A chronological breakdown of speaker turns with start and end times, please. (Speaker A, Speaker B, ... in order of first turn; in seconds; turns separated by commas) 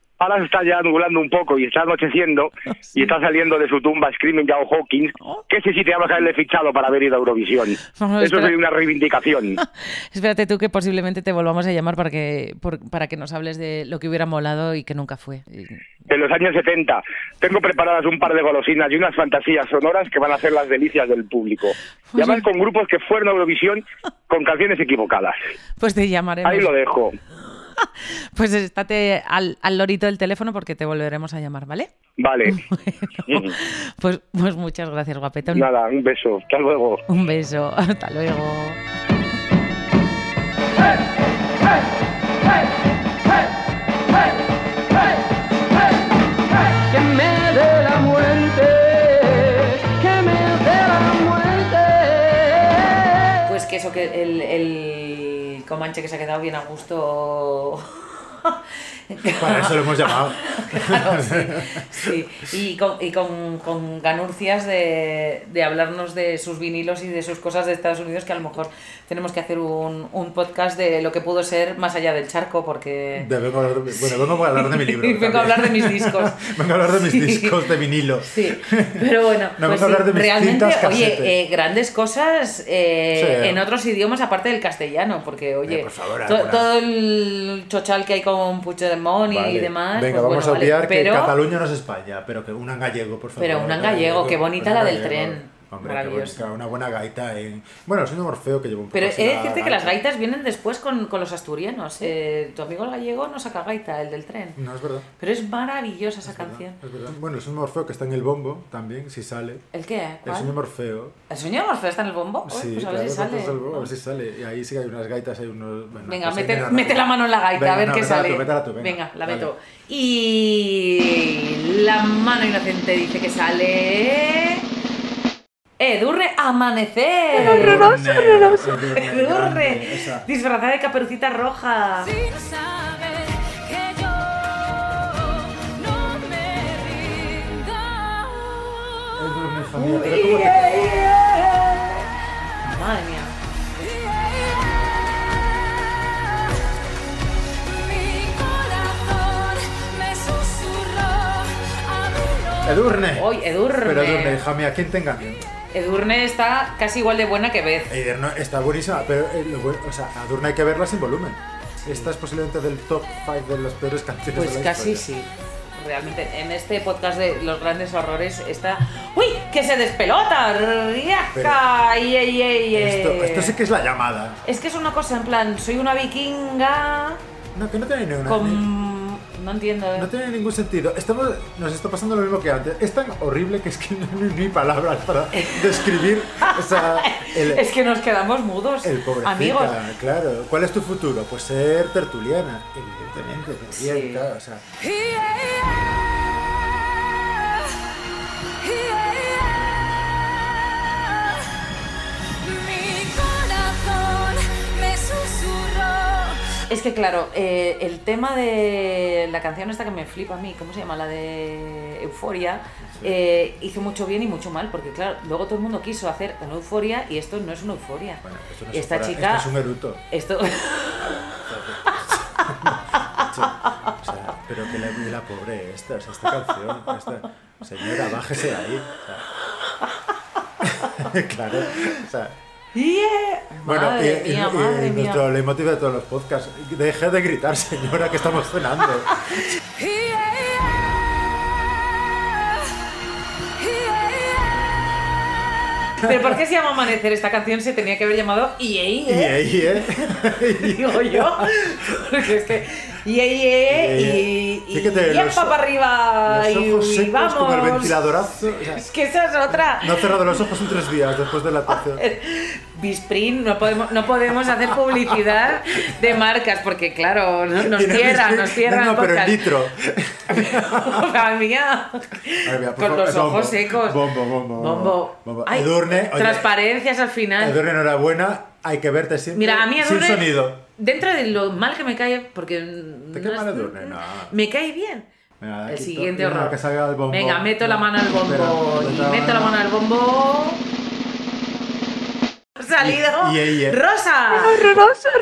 Speaker A: 0.2-9.6, Speaker B: 8.0-8.5, Speaker B: 9.6-15.8, Speaker A: 16.1-25.4, Speaker B: 22.1-22.4, Speaker B: 25.8-26.7, Speaker A: 26.4-27.1, Speaker B: 27.8-31.9, Speaker A: 32.2-32.6, Speaker B: 32.5-35.7, Speaker A: 33.3-33.5, Speaker A: 35.5-37.0, Speaker B: 37.1-38.8, Speaker C: 46.8-53.1, Speaker B: 53.5-58.6, Speaker B: 59.1-73.3, Speaker D: 59.3-62.1, Speaker D: 73.2-81.3, Speaker B: 73.9-77.5, Speaker B: 78.2-91.3, Speaker D: 83.1-83.6, Speaker D: 85.7-86.7, Speaker D: 89.3-100.0, Speaker B: 93.4-96.5, Speaker B: 98.9-104.6, Speaker D: 104.5-105.1, Speaker B: 105.2-106.8, Speaker D: 106.2-109.6, Speaker B: 109.7-110.5, Speaker D: 110.2-111.2, Speaker B: 111.3-113.9, Speaker D: 112.5-119.5, Speaker B: 116.0-124.6, Speaker B: 125.8-132.1, Speaker D: 127.3-130.2, Speaker E: 132.1-139.1, Speaker D: 139.2-140.8, Speaker B: 139.8-141.6, Speaker E: 140.9-141.8, Speaker B: 142.6-143.3, Speaker E: 143.8-146.5, Speaker E: 147.6-152.8, Speaker D: 152.6-155.4, Speaker B: 153.1-154.4, Speaker B: 155.7-157.9, Speaker D: 157.9-165.0, Speaker B: 161.8-162.1, Speaker B: 164.3-173.6, Speaker D: 171.3-171.6, Speaker D: 172.7-174.4, Speaker B: 174.4-177.2, Speaker D: 177.5-178.7, Speaker B: 178.2-180.1, Speaker D: 179.9-187.7, Speaker B: 185.3-185.8, Speaker B: 186.4-189.8, Speaker D: 188.8-194.6, Speaker B: 193.7-194.2, Speaker E: 194.8-195.9, Speaker E: 196.6-197.7, Speaker E: 198.6-201.4, Speaker E: 202.4-206.4, Speaker B: 206.7-219.5, Speaker D: 212.8-213.1, Speaker D: 218.2-220.0, Speaker B: 220.1-221.2, Speaker D: 221.0-229.3, Speaker B: 222.7-223.3, Speaker D: 230.6-232.4, Speaker B: 232.7-235.2, Speaker D: 233.6-239.3, Speaker E: 239.9-240.6, Speaker E: 243.7-244.4, Speaker B: 246.0-258.0, Speaker D: 246.1-246.3, Speaker D: 249.1-251.5, Speaker D: 253.7-255.6, Speaker D: 256.2-258.8, Speaker B: 258.7-260.1, Speaker D: 259.7-262.0, Speaker B: 261.7-269.4, Speaker D: 267.6-271.1, Speaker B: 270.3-277.6, Speaker D: 272.4-276.5, Speaker D: 277.4-280.6, Speaker B: 279.3-285.1, Speaker D: 283.1-284.3, Speaker D: 285.4-289.6, Speaker B: 285.7-286.6, Speaker B: 287.1-290.6, Speaker B: 292.6-294.8, Speaker D: 292.8-293.8